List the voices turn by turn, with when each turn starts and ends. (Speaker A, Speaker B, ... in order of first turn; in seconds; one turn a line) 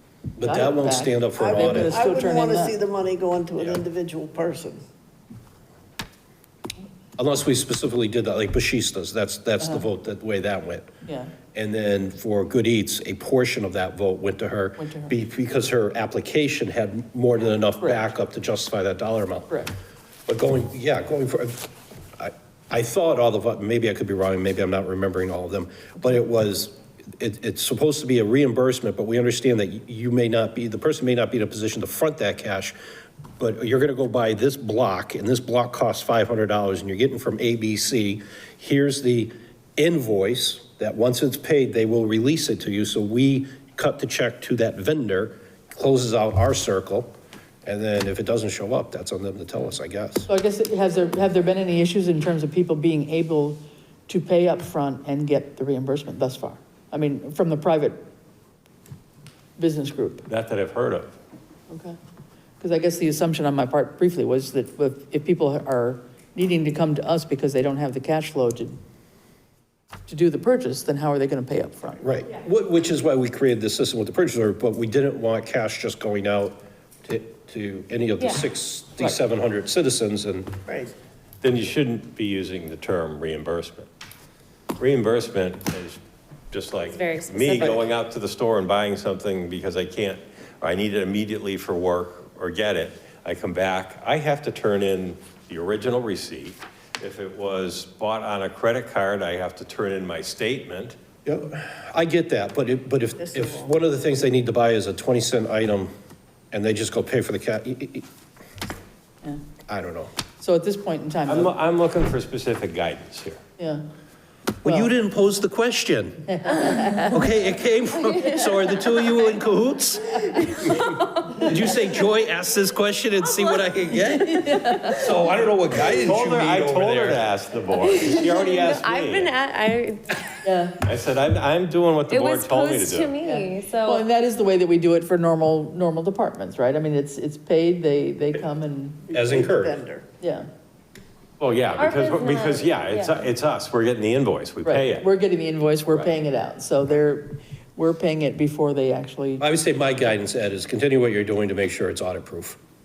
Speaker A: 0.4-1.9
Speaker B: 0.4-2.8
Speaker C: 1.4-4.8
Speaker A: 7.2-10.9
Speaker B: 9.6-9.8
Speaker B: 11.0-11.3
Speaker A: 11.5-19.5
Speaker B: 14.8-15.1
Speaker A: 20.3-32.8
Speaker A: 33.4-47.1
Speaker A: 47.6-50.3
Speaker B: 50.3-58.0
Speaker B: 59.6-60.3
Speaker D: 60.3-61.1
Speaker B: 61.7-62.0
Speaker B: 62.6-68.8
Speaker B: 70.1-72.0
Speaker A: 72.0-80.5
Speaker C: 80.7-80.9
Speaker D: 81.4-83.9
Speaker D: 84.8-86.0
Speaker D: 86.5-101.0
Speaker E: 86.8-87.8
Speaker A: 101.2-105.9
Speaker C: 103.2-103.7
Speaker A: 106.5-108.0
Speaker A: 109.7-110.1
Speaker B: 110.4-111.5
Speaker D: 111.3-113.4
Speaker B: 113.6-113.8
Speaker A: 114.6-116.4
Speaker B: 116.5-117.0
Speaker A: 117.0-120.8
Speaker E: 120.3-121.5
Speaker A: 121.4-127.2
Speaker B: 124.3-125.0
Speaker D: 125.9-129.3
Speaker E: 127.7-130.4
Speaker B: 130.4-130.8
Speaker D: 130.8-133.2
Speaker E: 132.1-134.0
Speaker B: 133.2-139.1
Speaker C: 139.1-140.1
Speaker A: 139.1-139.8
Speaker B: 140.2-140.5
Speaker D: 141.4-145.1
Speaker E: 141.8-143.3
Speaker B: 144.6-149.4
Speaker A: 149.4-152.6